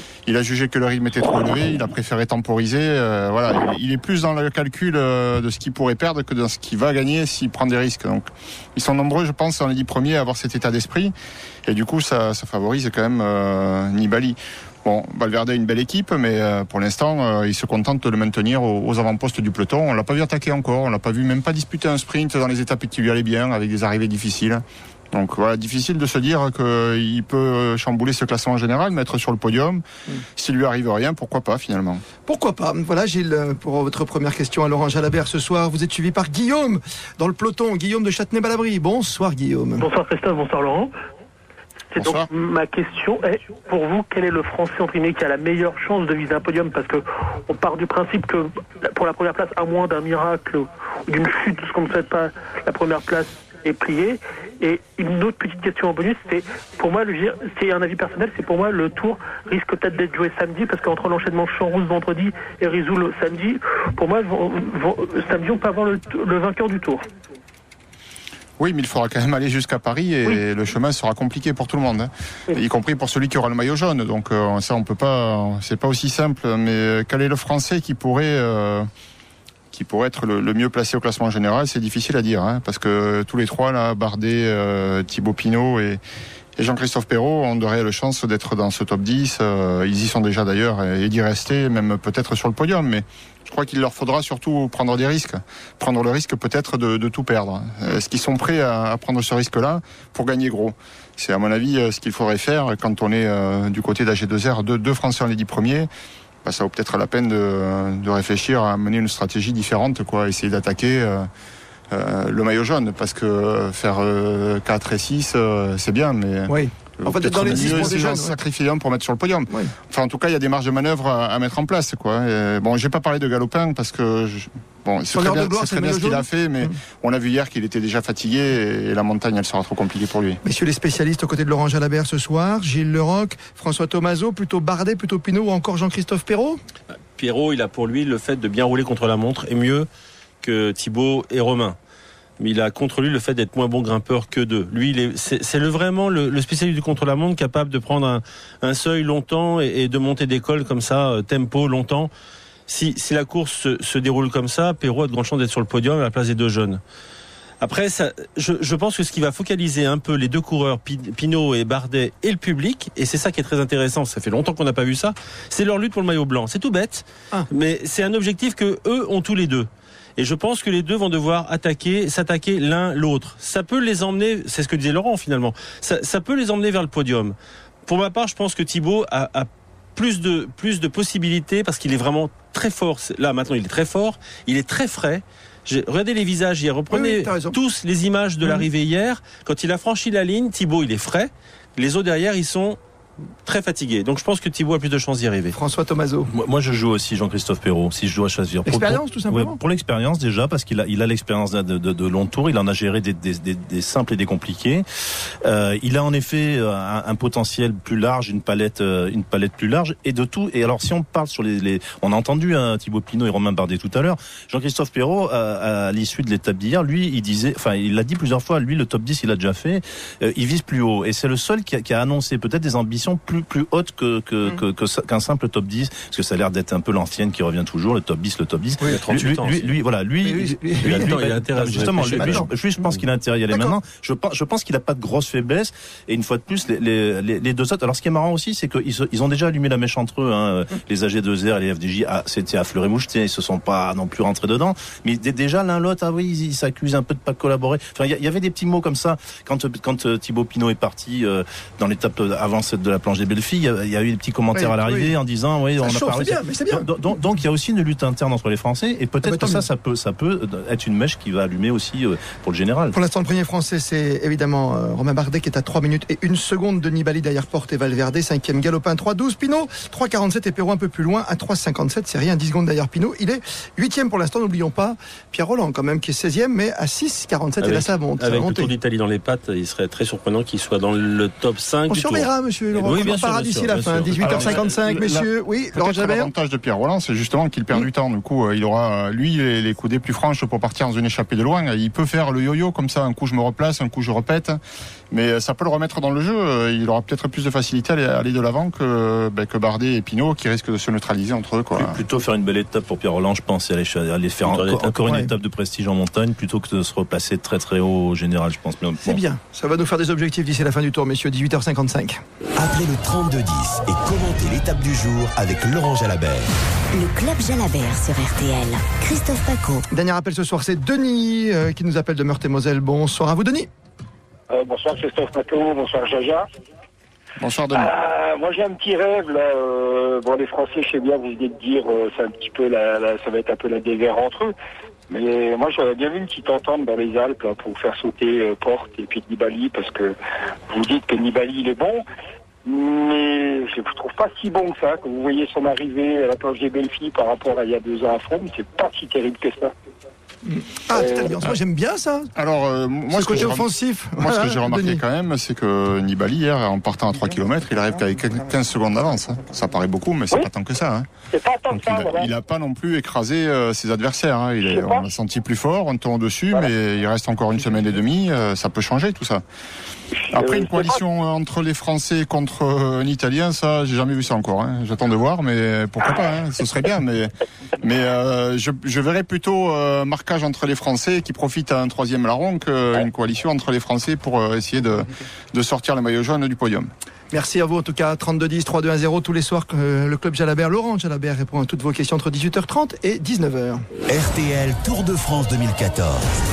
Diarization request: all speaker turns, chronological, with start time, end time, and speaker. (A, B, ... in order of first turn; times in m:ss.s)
0:00.2-0:11.1 A
0:11.6-0:29.8 A
0:30.4-0:32.0 A
0:32.2-0:39.8 B
0:39.8-0:40.9 C
0:41.9-1:07.0 C
0:42.0-0:42.3 A
1:08.6-1:18.9 A
1:19.7-1:26.0 A
1:26.6-1:45.9 A
1:46.4-1:51.3 A
1:51.9-2:10.4 A
1:56.5-1:58.4 B
1:57.5-1:57.8 D
2:05.1-2:06.7 B
2:10.4-2:16.6 B
2:17.1-2:19.9 E
2:20.4-2:21.8 E
2:22.4-2:32.1 E
2:32.7-2:36.8 E
2:37.6-3:12.8 E
3:06.9-3:07.6 B
3:13.4-3:15.5 E
3:15.5-3:16.3 B
3:16.3-3:24.8 D
3:18.7-3:19.6 B
3:25.4-4:22.9 D
3:48.8-3:49.7 E
3:50.2-3:52.5 B
3:50.8-3:52.5 E
3:53.5-3:53.8 B
4:14.5-4:15.2 B
4:15.8-4:16.9 B
4:19.2-4:19.6 B
4:22.9-4:38.7 B
4:37.6-4:44.9 E
4:41.9-4:46.3 B
4:44.2-4:54.6 A
4:55.1-5:02.0 A
5:01.8-5:09.2 D
5:04.5-5:04.9 E
5:09.0-5:12.2 B
5:12.6-5:16.5 F
5:16.9-5:19.9 G
5:19.9-5:23.7 B
5:24.5-5:26.4 H
5:27.4-5:27.9 A
5:27.7-5:34.5 H
5:35.1-5:40.1 H
5:40.7-5:42.0 H
5:42.6-5:49.7 H
5:50.4-5:52.3 B
5:50.9-5:51.4 H
5:52.4-6:01.1 A
5:53.1-5:55.0 B
6:01.3-6:02.3 H
6:01.7-6:09.4 A
6:04.6-6:05.0 H
6:10.3-6:26.9 A
6:10.3-6:11.0 H
6:27.3-6:33.8 B
6:34.1-6:36.3 F